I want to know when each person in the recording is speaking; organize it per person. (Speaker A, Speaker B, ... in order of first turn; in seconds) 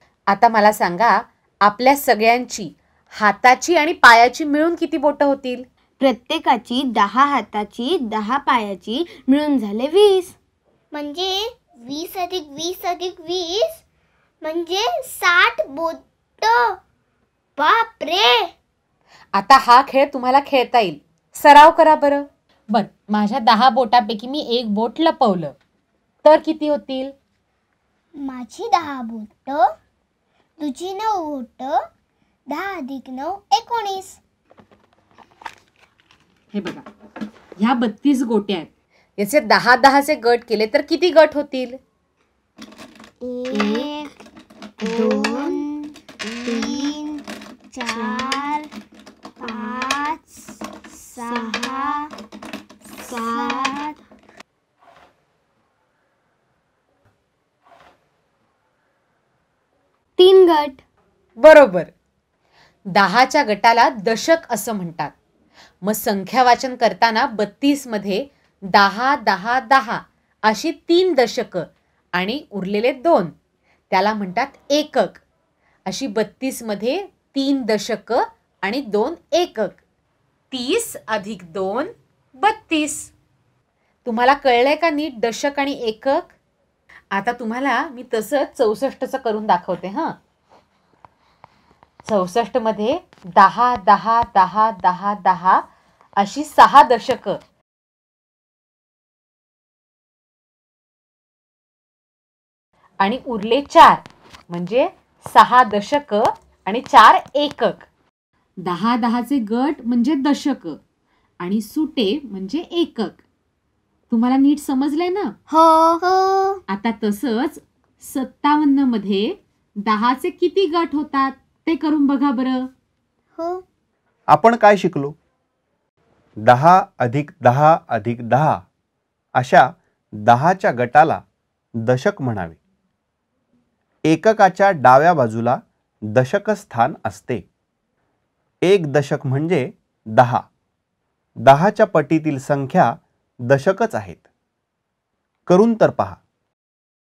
Speaker A: 0.3-5.6, 19.3-25.5, 26.2-27.1, 36.5-36.9, 37.6-41.8, 61.4-61.9, 62.9-65.1, 65.8-73.3, 73.9-75.2, 75.9-79.8, 80.5-83.1, 84.0-86.3, 87.1-90.1, 92.0-95.6, 96.2-97.4, 103.0-107.9, 108.6-110.8, 111.4-113.2, 114.1-115.3, 116.7-122.7
Speaker B: 6.0-10.3, 43.5-43.9, 44.8-45.6, 46.4-47.0, 47.9-48.5, 49.4-49.8, 51.2-52.0, 53.1-53.8, 60.2-60.8
Speaker C: 10.9-13.8, 14.4-16.8, 17.6-18.5, 28.2-29.6, 30.6-31.8, 32.5-34.2, 43.2-44.1, 44.8-48.7, 49.4-52.0, 53.0-54.0, 115.5-116.6, 123.4-123.6
Speaker D: 124.3-125.1, 126.4-128.6, 129.3-129.7, 130.2-131.2, 131.8-132.6, 134.1-135.6, 136.1-137.4, 138.6-140.4, 141.4-144.2, 145.5-146.2